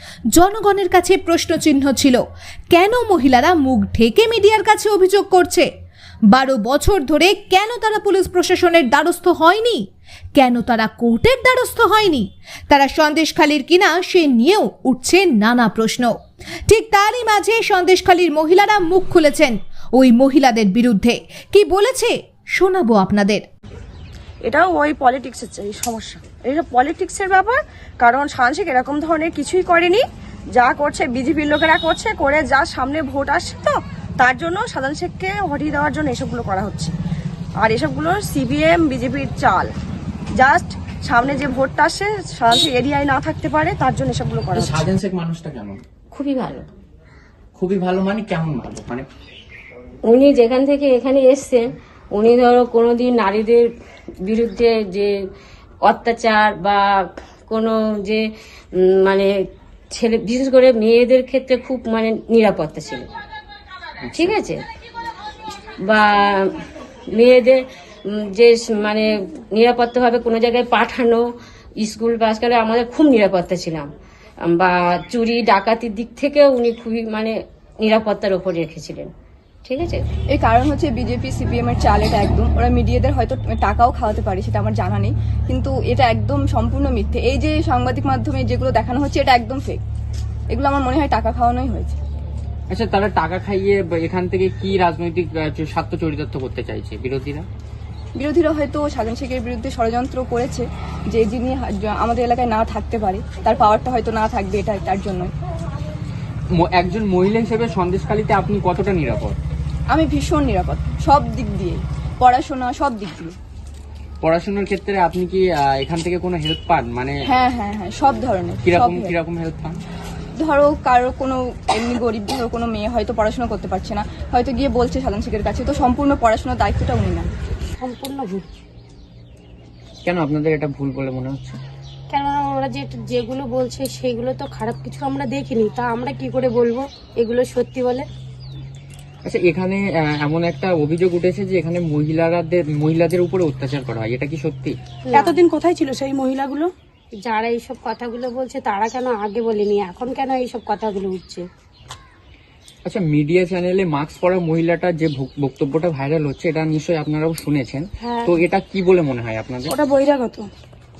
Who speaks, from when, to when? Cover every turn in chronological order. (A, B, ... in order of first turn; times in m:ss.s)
0:00.3-0:05.7 A
0:06.3-0:16.2 A
0:16.7-0:23.4 A
0:24.4-0:30.0 B
0:30.6-0:36.9 B
0:37.6-0:39.7 B
0:40.4-0:44.9 B
0:44.6-0:45.8 C
0:46.1-0:46.7 D
0:47.6-0:49.0 C
0:50.0-0:53.7 D
0:54.2-0:55.1 D
0:55.8-0:58.2 D
0:58.8-0:59.3 D
0:59.9-1:03.1 D
1:04.1-1:04.6 D
1:05.8-1:06.5 D
1:07.1-1:11.2 D
1:11.8-1:13.9 D
1:14.5-1:19.1 D
1:19.6-1:20.1 D
1:20.3-1:29.8 E
1:30.5-1:32.0 E
1:32.7-1:37.5 C
1:38.1-1:45.3 E
1:46.5-1:49.4 C
1:49.9-1:53.3 E
1:54.2-1:57.3 C
1:57.3-1:59.2 E
1:58.6-1:59.8 C
2:00.4-2:07.3 E
2:07.8-2:08.5 F
2:10.0-2:11.6 C
2:12.1-2:18.1 F
2:19.2-2:24.8 C
2:25.1-2:25.4 F
2:25.1-2:26.7 G
2:27.2-2:31.5 F
2:32.8-2:39.7 C
2:38.0-2:38.3 F
2:39.7-2:40.5 G